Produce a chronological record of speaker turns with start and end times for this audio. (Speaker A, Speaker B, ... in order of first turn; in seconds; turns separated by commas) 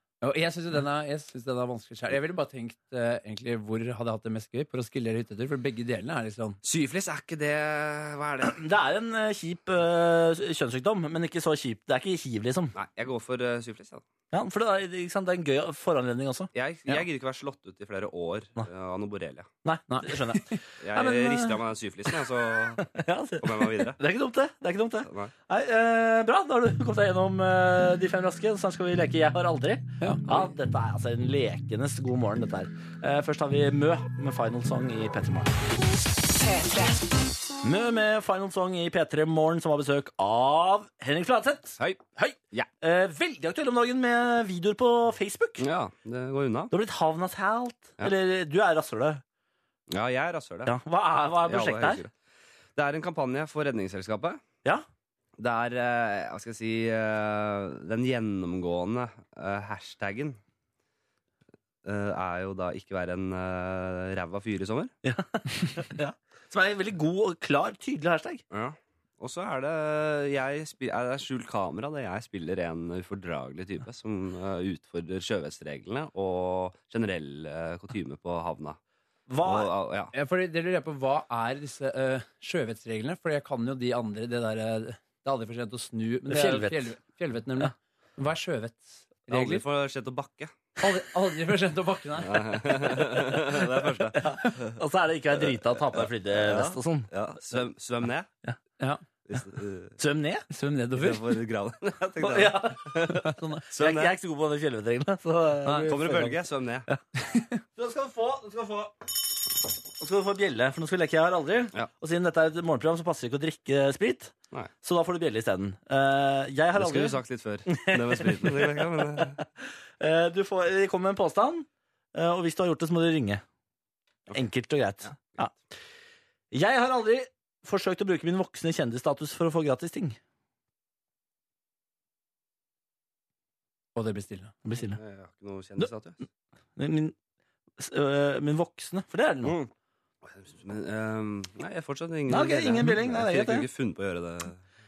Speaker A: 0.2-6.6, Speaker B: 6.6-8.6, Speaker C: 8.4-12.7, Speaker B: 12.7-14.0, Speaker C: 14.3-17.0, Speaker B: 16.5-19.5, Speaker C: 19.6-21.6, Speaker A: 19.9-20.6, Speaker B: 20.8-24.0, Speaker C: 22.8-35.5, Speaker B: 25.0-25.3, Speaker A: 30.0-30.5, Speaker C: 37.6-45.7, Speaker B: 41.8-42.7, Speaker B: 45.6-46.7, Speaker C: 46.7-49.2, Speaker B: 49.9-50.7, Speaker C: 50.6-52.0, Speaker B: 51.4-52.1, Speaker B: 52.8-54.4, Speaker B: 55.4-60.4, Speaker B: 61.8-64.9, Speaker C: 65.0-68.4, Speaker B: 68.5-78.8, Speaker C: 79.3-79.7, Speaker B: 79.4-80.1, Speaker A: 80.1-89.6, Speaker C: 86.3-87.0, Speaker B: 89.3-90.7, Speaker A: 90.8-92.6, Speaker B: 92.2-94.3, Speaker C: 94.1-97.1, Speaker B: 96.0-98.3, Speaker A: 98.8-99.0, Speaker B: 99.2-100.0, Speaker C: 100.0-100.5, Speaker A: 100.5-101.2, Speaker B: 101.0-104.1, Speaker C: 102.2-106.3, Speaker A: 103.2-103.6, Speaker A: 105.7-105.9, Speaker B: 105.8-106.9, Speaker A: 107.2-107.6, Speaker C: 107.8-108.9, Speaker C: 110.0-123.4, Speaker B: 116.7-119.4, Speaker C: 124.3-125.5, Speaker B: 125.0-125.6, Speaker C: 126.5-130.2, Speaker A: 133.9-134.7, Speaker C: 134.6-135.0, Speaker B: 134.8-136.2, Speaker C: 136.8-137.1, Speaker C: 137.8-139.6, Speaker B: 139.4-139.7, Speaker B: 140.2-144.6, Speaker C: 142.3-143.7